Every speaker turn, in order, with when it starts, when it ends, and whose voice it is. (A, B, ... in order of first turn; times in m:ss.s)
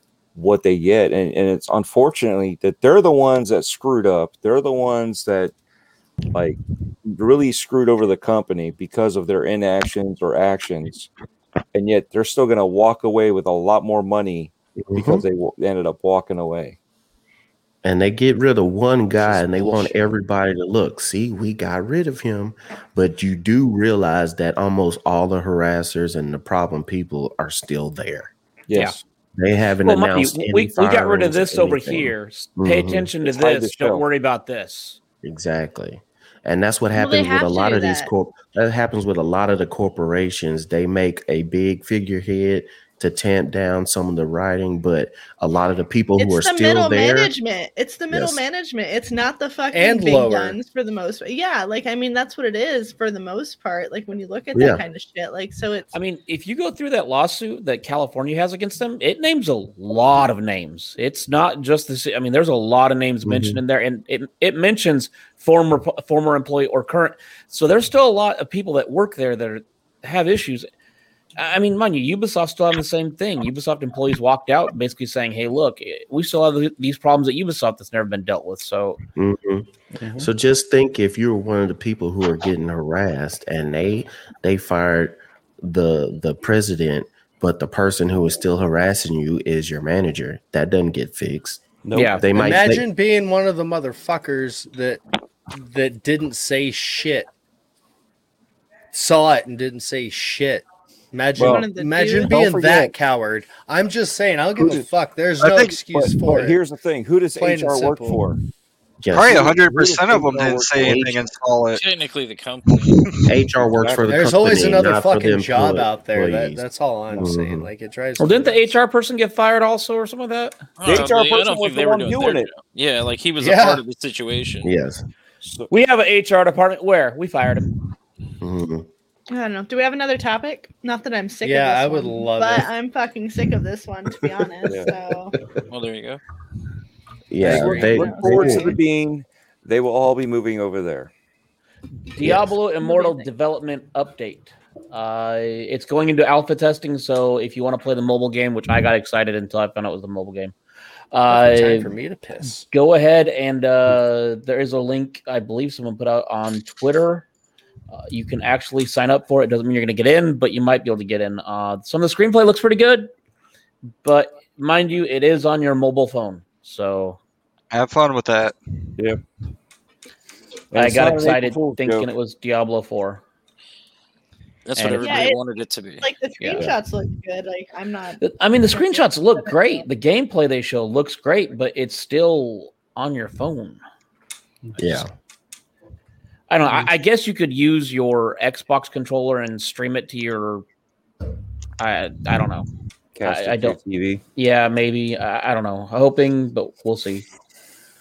0:00.3-0:05.5 A
0:06.3-0:11.1 A
0:11.7-0:16.8 A
0:14.9-0:15.2 B
0:17.8-0:28.3 B
0:19.2-0:20.0 A
0:28.7-0:29.0 A
0:29.4-0:33.1 B
0:29.8-0:35.0 C
0:33.2-0:34.0 A
0:35.2-0:47.3 B
0:36.9-0:38.1 D
0:46.2-0:55.9 D
0:48.1-0:48.4 B
0:49.7-0:50.6 E
0:54.5-0:54.8 B
0:55.9-1:10.7 C
1:03.2-1:03.6 B
1:11.4-1:19.0 C
1:19.2-1:32.8 B
1:31.8-1:32.6 A
1:31.9-1:32.2 C
1:32.4-1:37.3 E
1:38.9-1:46.6 E
1:41.4-1:41.7 A
1:41.4-1:42.4 D
1:42.3-1:42.9 A
1:44.6-1:44.9 A
1:45.4-1:45.7 F
1:45.7-1:48.4 A
1:47.3-1:48.3 E
1:49.0-1:51.2 B
1:49.1-1:51.8 F
1:49.5-1:51.0 A
1:51.7-1:53.0 G
1:53.2-1:57.7 B
1:53.6-1:54.1 A
1:54.1-1:58.7 E
1:58.2-2:00.6 C
2:00.8-2:04.7 G
2:00.8-2:02.5 A
2:03.4-2:03.8 E
2:04.6-2:05.0 B
2:05.4-2:05.7 A
2:05.7-2:07.7 C
2:08.4-2:08.9 B
2:09.3-2:15.3 D
2:11.4-2:12.7 E
2:14.4-2:14.7 B
2:14.6-2:14.9 A
2:15.7-2:16.2 G
2:17.3-2:18.7 B
2:17.4-2:21.1 A
2:17.5-2:18.8 D
2:22.1-2:30.5 C
2:22.2-2:22.5 B
2:22.8-2:23.2 D
2:31.1-2:31.9 C
2:31.3-2:32.7 E
2:32.5-2:37.2 C
2:37.9-2:43.1 C
2:44.0-2:47.2 C
2:47.7-2:48.6 F
2:50.7-2:52.1 A
2:50.7-2:53.2 C
2:54.6-2:56.1 G
2:54.8-2:55.3 C
2:55.0-2:55.4 D
2:56.0-2:59.8 D
2:56.4-2:56.7 C
2:58.2-3:03.8 C
3:04.8-3:05.1 B
3:06.5-3:10.6 C
3:11.8-3:12.7 C
3:13.2-3:14.2 A
3:13.2-3:13.8 C
3:14.4-3:17.2 C